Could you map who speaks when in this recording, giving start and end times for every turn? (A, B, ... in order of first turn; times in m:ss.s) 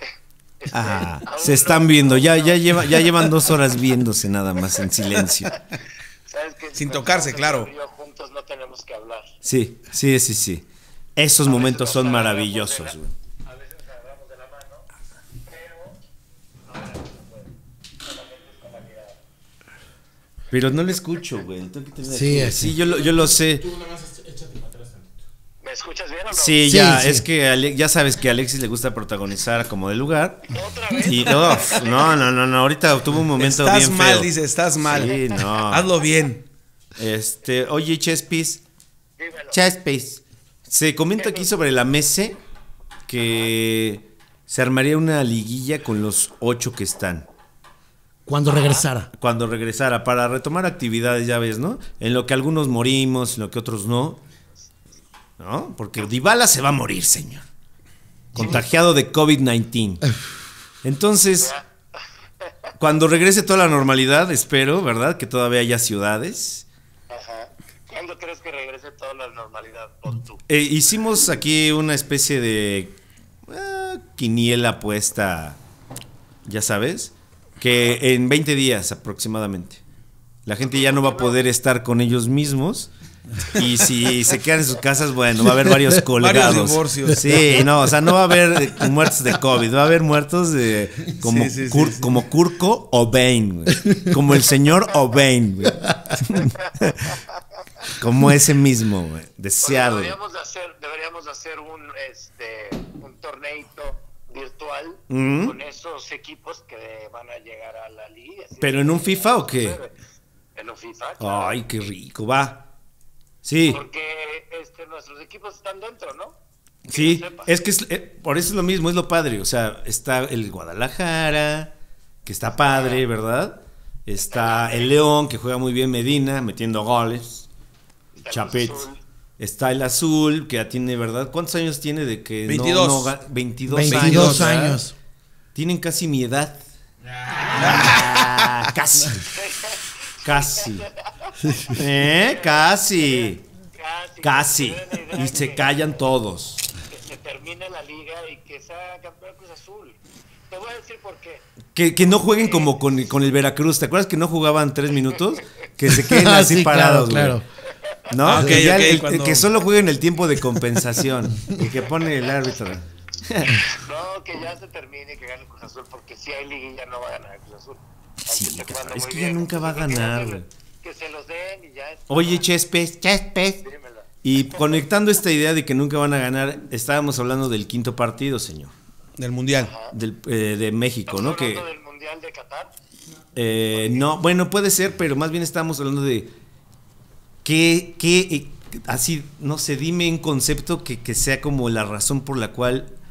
0:00.6-0:03.3 A
0:00.7-0:05.5 B
0:06.3-0:09.3 A
0:06.8-0:07.7 C
0:09.4-0:10.6 B
0:11.2-0:13.1 B
0:11.4-0:14.8 A
0:15.4-0:16.0 A
0:16.7-0:19.2 A
0:20.5-0:23.7 B
0:22.0-0:22.7 D
0:22.7-0:25.2 E
0:25.6-0:26.6 A
0:26.3-0:34.3 B
0:26.6-0:27.2 D
0:30.5-0:32.2 A
0:33.4-0:36.4 C
0:34.8-0:35.9 B
0:37.0-0:38.6 B
0:39.2-0:39.6 A
0:39.5-0:42.4 B
0:41.2-0:41.5 A
0:43.1-0:47.3 B
0:48.2-0:49.1 D
0:49.2-0:54.2 B
0:55.4-0:57.4 B
0:58.3-1:00.1 B
1:00.8-1:01.5 B
1:01.4-1:01.6 A
1:02.8-1:06.6 B
1:07.1-1:10.4 A
1:10.5-1:13.0 B
1:13.5-1:15.6 B
1:16.4-1:19.8 B
1:20.4-1:22.9 B
1:20.6-1:21.4 A
1:23.5-1:37.1 B
1:26.2-1:27.3 C
1:31.2-1:32.1 C
1:37.9-1:40.1 B
1:39.6-1:49.9 A
1:45.1-1:45.6 B
1:48.6-1:49.8 B
1:50.5-1:51.6 A
1:51.2-1:52.6 B
1:53.4-1:53.8 B
1:53.6-1:56.3 A
1:56.9-2:01.7 B
1:56.9-1:57.5 A
2:02.2-2:07.5 B
2:02.6-2:03.0 A
2:04.3-2:05.0 A
2:08.2-2:09.0 A
2:08.3-2:08.8 B
2:09.4-2:14.8 B
2:12.4-2:13.1 C
2:13.7-2:14.9 D
2:13.9-2:14.6 C
2:15.5-2:16.6 B
2:17.0-2:18.1 E
2:17.5-2:19.3 B
2:17.5-2:18.1 C
2:19.3-2:25.7 A
2:20.2-2:20.9 B
2:21.5-2:21.7 D
2:21.7-2:23.4 B
2:24.2-2:26.7 B
2:26.9-2:30.0 A
2:30.5-2:31.4 A
2:31.7-2:37.4 B
2:32.2-2:32.7 A
2:35.9-2:37.4 D
2:38.1-2:43.6 B
2:38.2-2:39.5 C
2:43.7-2:52.4 A
2:48.3-2:50.4 B
2:52.1-2:53.6 B
2:53.6-2:54.0 A
2:54.2-2:58.7 B
2:59.2-2:59.7 C
2:59.6-2:59.9 A
2:59.9-3:01.6 B
3:01.1-3:02.7 A
3:03.3-3:06.3 B
3:03.8-3:04.0 A
3:07.4-3:12.9 B